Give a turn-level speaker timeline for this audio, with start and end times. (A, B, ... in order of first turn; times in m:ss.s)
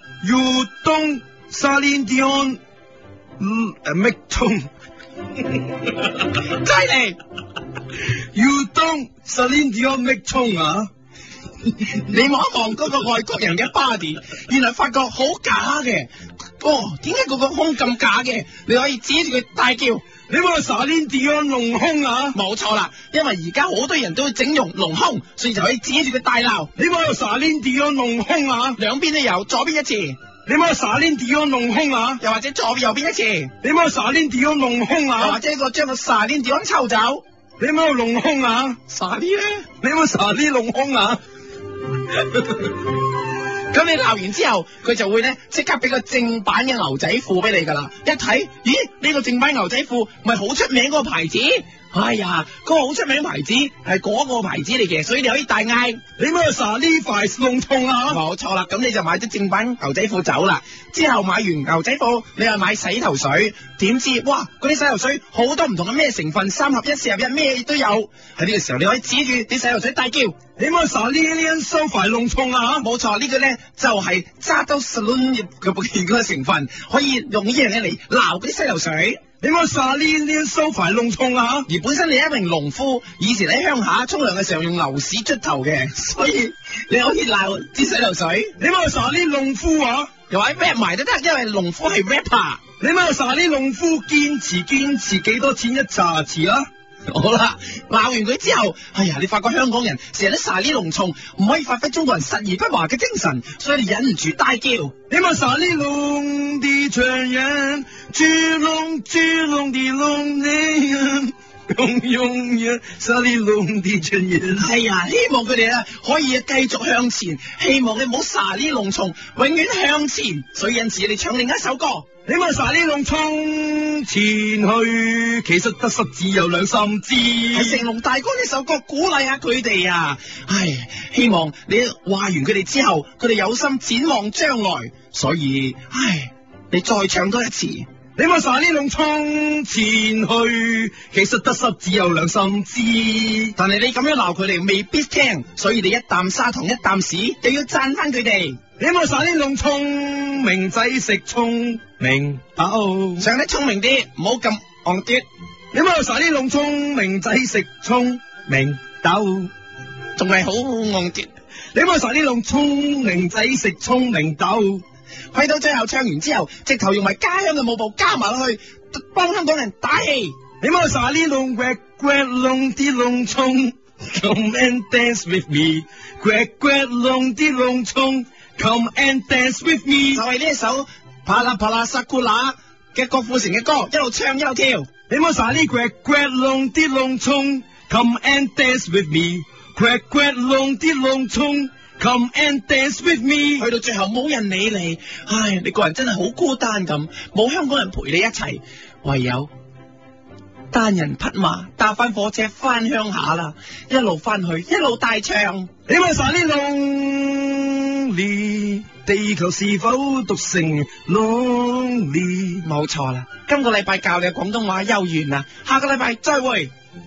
0:00.2-0:02.6 A
0:03.4-0:04.7 A
0:06.4-0:07.2 B
0:08.3-0:10.9 A
0:11.9-0:20.0 B
0:20.3-0:22.4 A
0:22.3-0:26.7 B
0:26.8-0:28.8 A
0:28.8-0:30.2 B
0:30.4-0:32.2 A
0:32.2-0:33.5 B
0:33.6-0:35.4 A
0:35.2-0:37.2 B
0:37.6-0:38.8 A
0:38.9-0:39.7 B
0:39.8-0:41.2 A
0:43.7-0:56.0 B
0:56.2-0:58.2 A
0:58.1-1:10.4 B
1:10.6-1:12.8 A
1:12.8-1:19.2 B
1:19.4-1:21.7 A
1:21.7-1:28.5 B
1:28.6-1:30.1 A
1:30.3-1:32.6 B
1:32.8-1:36.6 A
1:37.1-1:44.9 B
1:45.1-1:54.6 A
1:54.5-2:02.0 B
2:02.2-2:07.8 A
2:07.5-2:17.8 B
2:18.2-2:23.5 A
2:23.6-2:28.6 B
2:28.8-2:33.3 A
2:33.2-2:35.2 B
2:35.7-2:39.5 A
2:40.2-2:41.3 B
2:41.7-2:44.8 A
2:45.3-2:50.3 B
2:50.6-3:00.2 A
3:00.1-3:04.9 B
3:05.1-3:13.6 A
3:13.6-3:19.5 B
3:20.7-3:25.7 B
3:25.9-3:32.6 A
3:32.6-3:36.7 B